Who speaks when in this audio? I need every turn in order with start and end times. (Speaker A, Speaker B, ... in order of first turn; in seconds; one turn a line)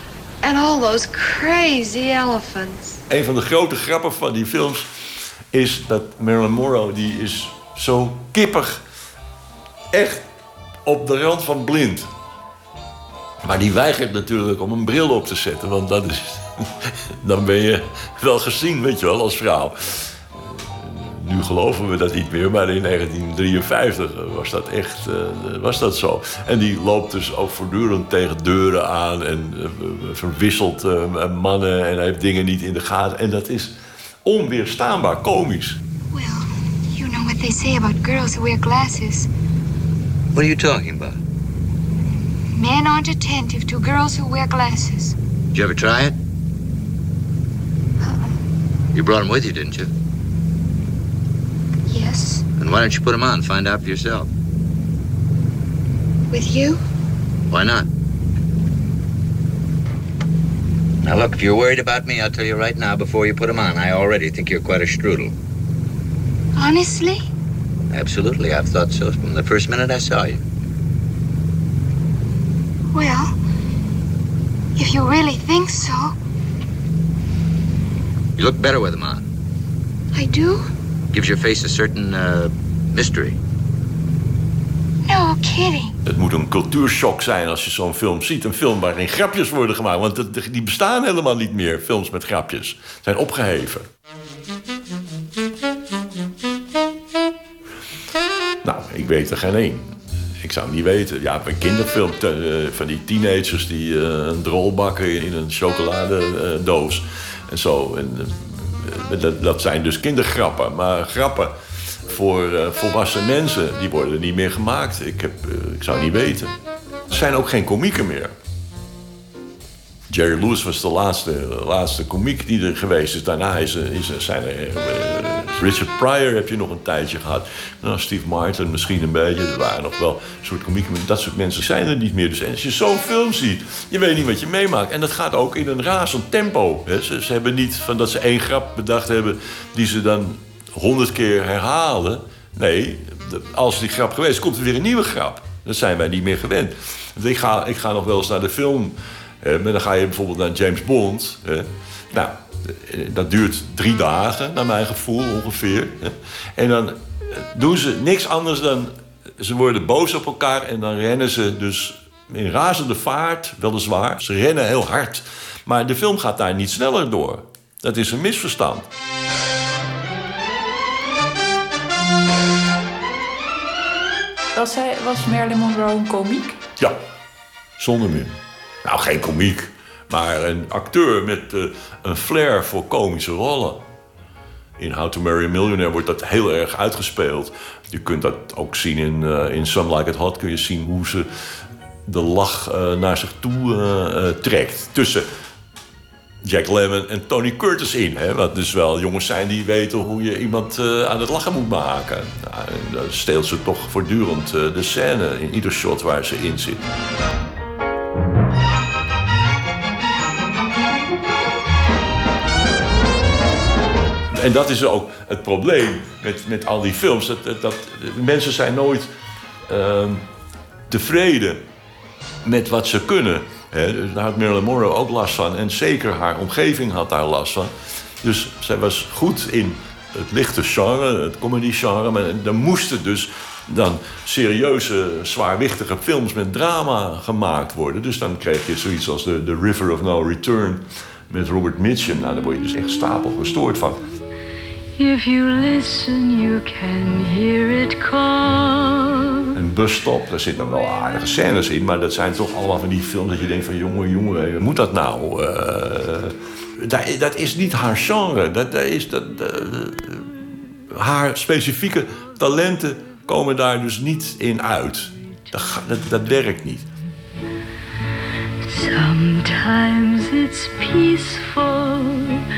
Speaker A: 0.4-3.0
Speaker B: 3.1-4.9
Speaker B: 5.5-8.8
Speaker B: 9.9-10.2
Speaker B: 10.8-12.1
Speaker B: 13.4-35.8
Speaker A: 36.1-39.3
Speaker C: 40.3-41.1
Speaker A: 42.5-45.1
Speaker C: 45.5-46.1
Speaker A: 48.0-48.4
Speaker C: 48.9-49.9
Speaker A: 51.9-52.4
Speaker C: 52.5-54.3
Speaker A: 56.3-56.8
Speaker C: 57.5-57.9
Speaker C: 61.0-65.3
Speaker A: 66.5-67.3
Speaker C: 67.9-70.4
Speaker A: 72.9-73.3
Speaker A: 74.8-76.1
Speaker C: 78.4-79.2
Speaker A: 80.1-80.7
Speaker C: 81.1-83.4
Speaker A: 85.0-85.9
Speaker B: 86.0-93.9
Speaker B: 98.6-99.9
Speaker B: 100.4-111.5
Speaker B: 112.0-116.5
Speaker B: 117.1-118.3
Speaker B: 120.1-168.8
Speaker D: 174.5-176.6
Speaker B: 177.8-183.8
Speaker B: 184.8-191.3
Speaker B: 192.1-195.3
Speaker B: 196.4-206.8
Speaker B: 214.3-219.1
Speaker B: 219.7-220.2
Speaker B: 220.9-221.6
Speaker B: 222.4-244.0
Speaker E: 245.0-248.7
Speaker B: 249.5-260.4
Speaker B: 260.9-266.9
Speaker E: 268.8-272.3